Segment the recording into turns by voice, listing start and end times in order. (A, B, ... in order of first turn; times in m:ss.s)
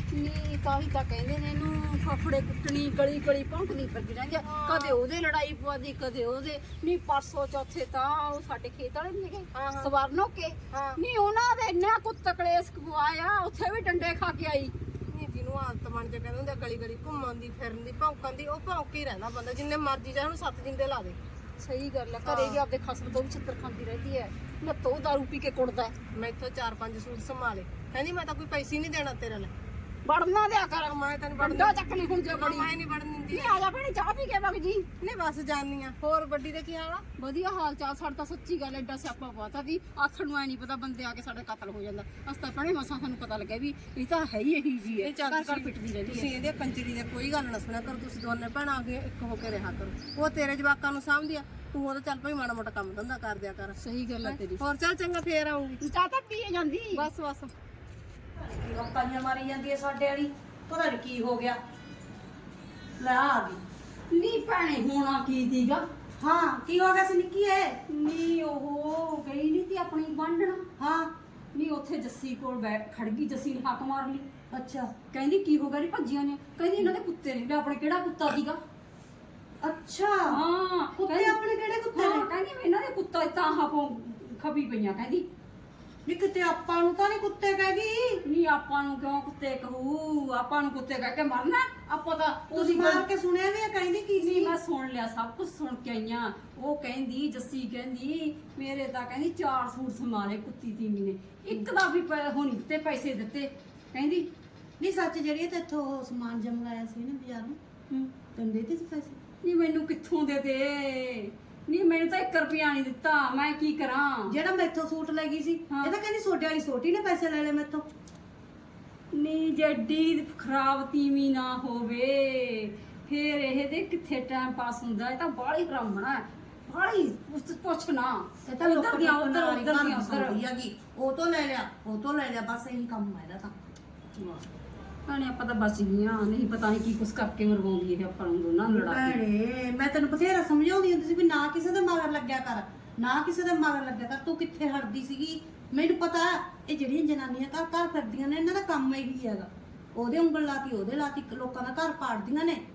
0:00.1-0:14.7 A
0:04.4-0:05.0 B
0:09.5-0:09.9 B
0:10.7-0:11.0 B
0:15.1-0:21.2 B
0:21.6-0:25.9 A
0:22.2-0:22.6 B
0:26.1-0:29.5 B
0:30.0-0:32.7 A
0:30.8-0:33.6 B
0:33.3-0:34.8 A
0:35.0-0:37.0 B
0:37.2-0:46.3 A
0:45.0-0:55.8 B
0:53.8-0:54.6 A
0:55.8-0:57.0 A
0:56.9-0:57.5 B
0:58.4-1:01.6 C
1:03.0-1:03.6 C
1:04.1-1:05.8 A
1:06.2-1:07.8 C
1:07.9-1:10.7 A
1:10.8-1:11.1 C
1:11.5-1:14.2 A
1:14.5-1:14.9 C
1:15.1-1:18.6 A
1:19.6-1:20.4 C
1:20.3-1:21.4 A
1:21.0-1:22.3 C
1:21.9-1:25.2 A
1:26.0-1:28.2 C
1:28.2-1:33.0 A
1:32.5-1:34.6 C
1:34.2-1:44.3 A
1:44.8-1:49.2 C
1:49.4-1:54.3 A
1:54.3-1:57.9 C
1:55.7-1:55.9 A
1:59.1-2:10.4 A
2:08.4-2:13.5 C
2:14.2-2:14.4 A
2:15.0-2:19.2 A
2:18.7-2:32.6 C